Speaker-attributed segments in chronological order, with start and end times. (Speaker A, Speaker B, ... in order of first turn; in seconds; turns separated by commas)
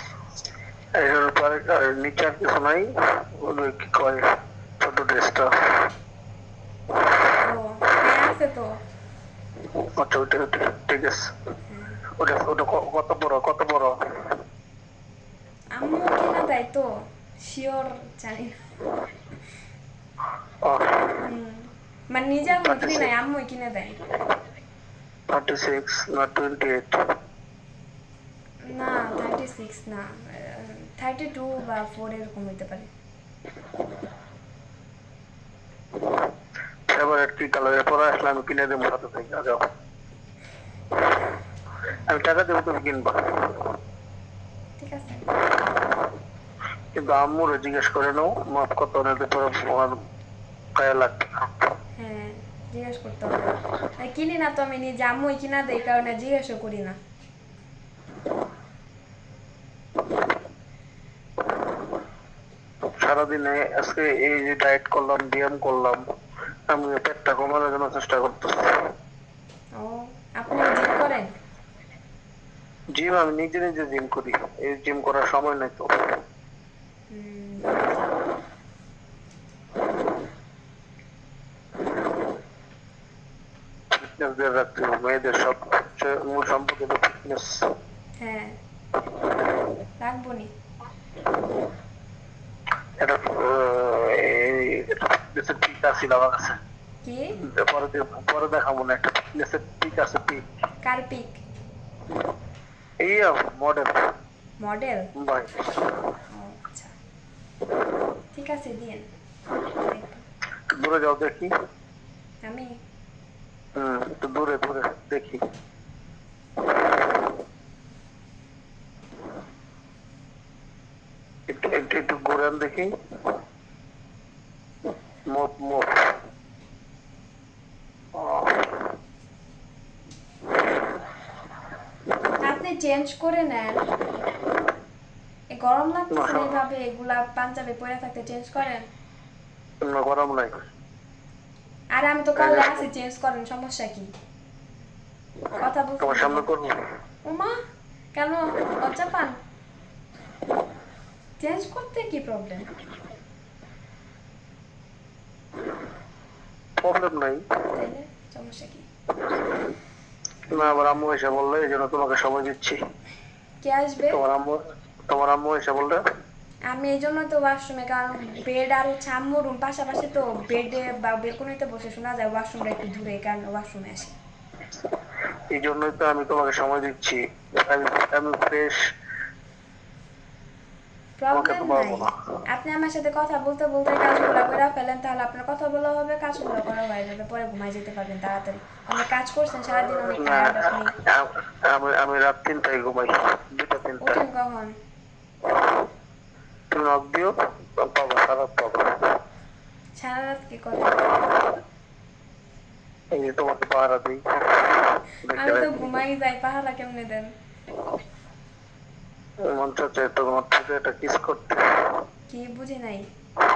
Speaker A: 1.0-5.9, Speaker B: 7.4-8.8, Speaker A: 9.8-11.3, Speaker B: 11.7-12.0, Speaker A: 12.2-14.3, Speaker B: 15.8-16.9, Speaker B: 17.4-18.6, Speaker A: 20.6-21.2, Speaker B: 21.2-24.0, Speaker A: 22.6-23.1, Speaker A: 25.3-27.0, Speaker B: 28.6-32.9, Speaker A: 36.9-39.6, Speaker A: 42.1-43.6, Speaker B: 44.8-45.3, Speaker A: 46.9-50.0, Speaker A: 50.8-51.5, Speaker B: 52.0-57.0, Speaker A: 63.0-66.0, Speaker A: 66.7-68.9, Speaker B: 69.8-71.3, Speaker A: 72.9-75.9, Speaker B: 77.1-78.1, Speaker A: 83.9-87.7, Speaker B: 88.2-88.5, Speaker B: 90.0-90.5, Speaker A: 93.0-96.6, Speaker B: 97.0-97.3, Speaker A: 97.4-100.4, Speaker B: 100.8-101.4, Speaker A: 103.0-104.0, Speaker B: 104.6-105.1, Speaker A: 105.1-105.6, Speaker B: 106.3-106.9, Speaker B: 108.3-109.1, Speaker B: 109.7-110.2, Speaker A: 110.7-111.5, Speaker B: 112.4-112.7, Speaker A: 113.8-115.4, Speaker A: 121.5-122.9, Speaker A: 125.3-125.9, Speaker A: 128.1-128.7, Speaker B: 132.4-133.8, Speaker B: 135.5-138.8, Speaker A: 136.1-136.6, Speaker A: 139.8-140.6, Speaker B: 141.9-144.1, Speaker A: 142.3-142.9, Speaker B: 145.6-146.5, Speaker A: 146.0-146.8, Speaker B: 147.2-147.5, Speaker B: 148.1-149.4, Speaker B: 151.4-152.7, Speaker A: 156.8-157.4, Speaker B: 157.7-158.9, Speaker A: 160.5-162.8, Speaker B: 160.5-160.9, Speaker B: 163.6-164.2, Speaker A: 164.1-166.0, Speaker B: 166.7-174.2, Speaker A: 175.5-178.9, Speaker B: 181.2-190.9, Speaker A: 181.3-182.1, Speaker A: 190.1-194.2, Speaker B: 194.0-194.7, Speaker A: 196.7-199.1, Speaker B: 200.0-201.2, Speaker A: 203.1-204.7, Speaker A: 205.2-206.0, Speaker B: 205.3-207.3, Speaker A: 209.5-212.0, Speaker B: 212.3-213.1